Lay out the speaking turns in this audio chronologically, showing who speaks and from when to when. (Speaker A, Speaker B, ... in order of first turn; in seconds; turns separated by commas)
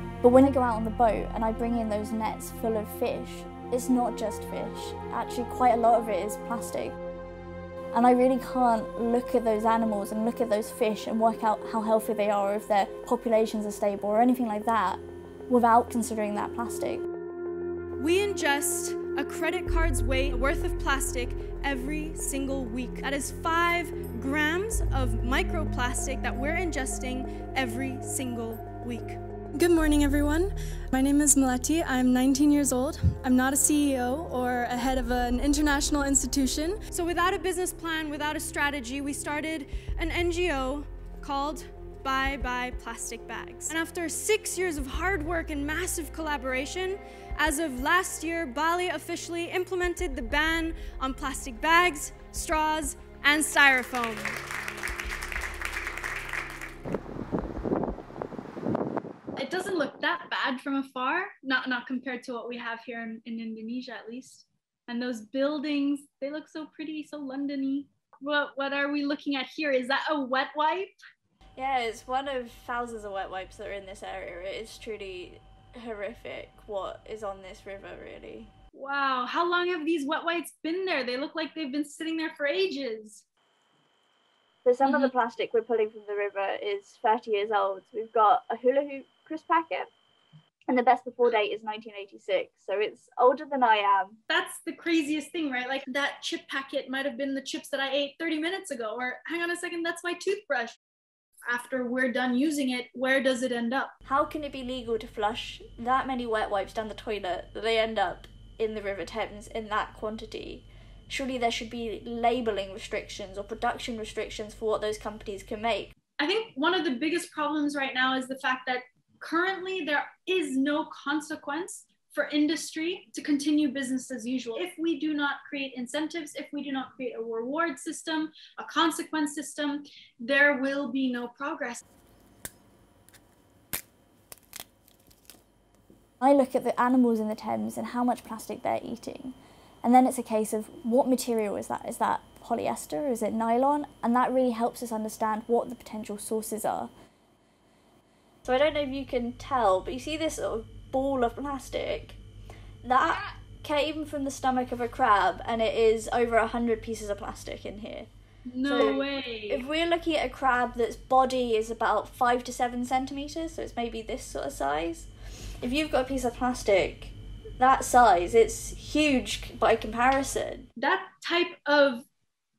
Speaker A: 0.2-7.0, Speaker A: 7.9-17.0, Speaker B: 18.0-54.4, Speaker C: 59.4-71.0, Speaker A: 71.6-78.5, Speaker C: 78.7-83.2, Speaker A: 84.6-89.9, Speaker C: 84.8-85.1, Speaker A: 90.7-94.2, Speaker C: 94.3-100.8, Speaker C: 101.5-103.9, Speaker A: 104.0-115.9, Speaker C: 116.2-131.8, Speaker A: 136.2-146.9, Speaker A: 148.4-152.2, Speaker A: 152.8-158.1, Speaker C: 158.5-159.7, Speaker A: 158.6-165.1, Speaker A: 165.6-170.7, Speaker C: 170.8-172.1